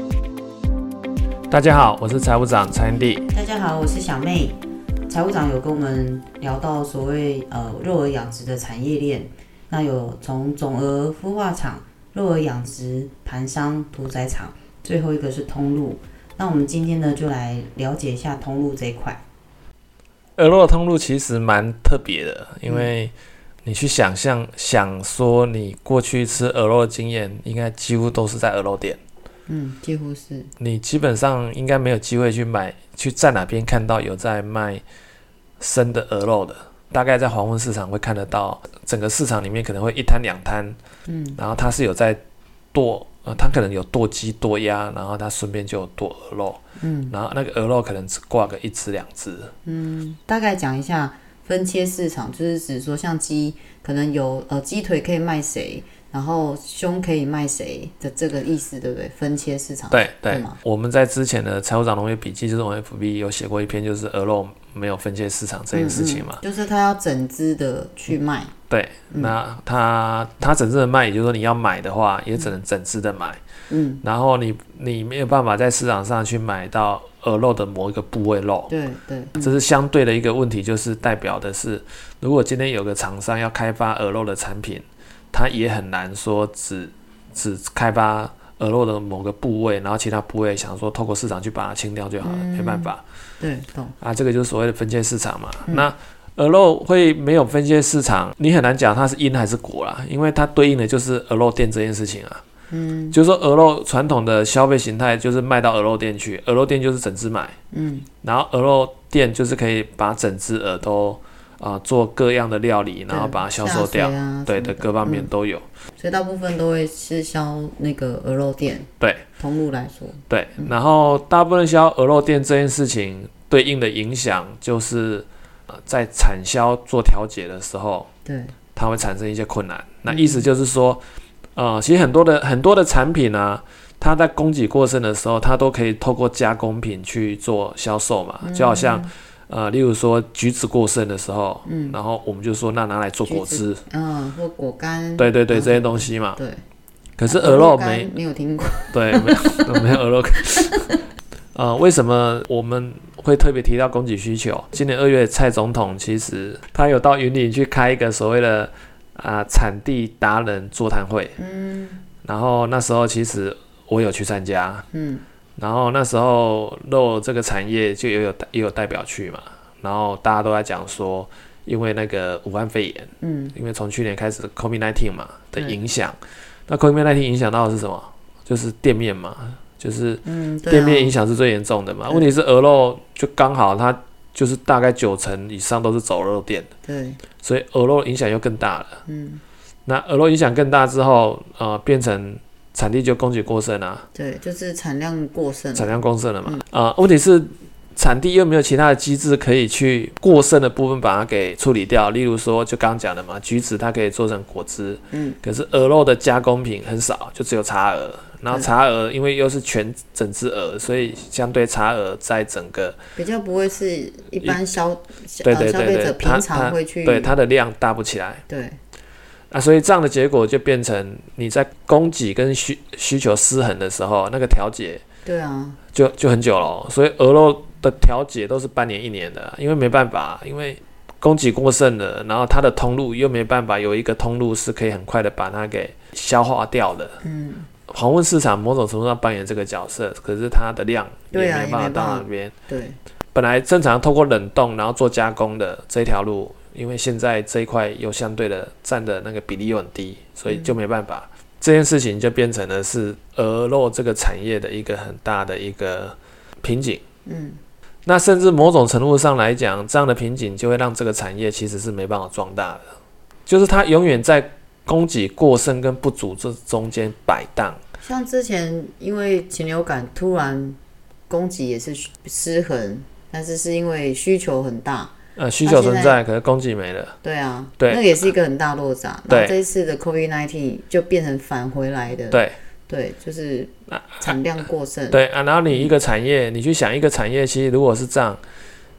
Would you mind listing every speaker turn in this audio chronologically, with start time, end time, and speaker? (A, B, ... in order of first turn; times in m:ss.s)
0:01.5-0:03.2 A
0:03.3-0:19.2 B
0:20.4-0:23.1 A
0:23.6-0:29.0 A
0:29.5-0:30.5 B
0:30.6-0:34.8 A
0:35.6-0:40.8 A
0:41.1-0:41.4 B
0:41.4-0:42.2 A
0:42.7-0:49.5 A
0:46.8-0:47.1 B
0:49.6-1:00.6 B
0:59.9-1:06.4 A
1:05.7-1:08.5 B
1:08.7-1:13.4 A
1:13.7-1:14.0 B
1:14.0-1:18.7 A
1:18.7-1:19.5 B
1:19.4-1:33.0 A
1:32.2-1:33.9 B
1:34.0-1:42.4 A
1:42.7-1:43.2 B
1:43.1-1:47.6 A
1:47.7-1:48.1 B
1:48.2-1:55.6 A
1:53.1-1:55.3 B
1:56.0-2:00.7 B
1:59.0-1:59.2 A
2:00.3-2:08.1 A
2:08.2-2:08.5 B
2:08.7-2:11.0 A
2:10.0-2:10.5 B
2:11.5-2:23.8 A
2:18.4-2:19.1 B
2:21.6-2:22.0 B
2:23.2-2:26.6 B
2:25.2-2:26.4 A
2:27.2-2:28.1 A
2:27.3-2:29.7 B
2:28.9-2:30.8 A
2:31.5-2:41.4 A
2:41.4-2:42.0 B
2:42.2-2:44.8 A
2:44.9-2:45.2 B
2:45.6-2:56.2 A
2:53.2-2:53.5 B
2:56.7-3:06.7 A
3:00.2-3:01.1 B
3:06.8-3:07.2 B
3:07.4-3:09.0 A
3:09.1-3:09.4 B
3:09.8-3:14.1 A
3:14.1-3:16.6 B
3:15.7-3:33.0 A
3:25.1-3:25.4 B
3:33.2-3:37.4 B
3:35.4-3:38.4 A
3:38.5-3:38.8 B
3:39.5-3:45.0 A
3:45.2-3:45.8 B
3:45.9-3:57.2 A
3:57.2-3:57.7 B
3:57.9-4:02.5 A
4:01.3-4:03.0 B
4:03.3-4:17.0 A
4:10.5-4:10.7 B
4:17.2-4:17.6 B
4:18.0-4:22.8 A
4:23.4-4:27.8 A
4:28.0-4:30.8 B
4:31.3-4:35.1 B
4:35.4-4:37.2 A
4:35.6-4:36.2 B
4:37.2-4:45.2 B
4:37.8-4:38.1 A
4:39.3-4:39.6 A
4:42.3-4:42.6 A
4:43.9-4:44.3 A
4:45.1-4:48.4 A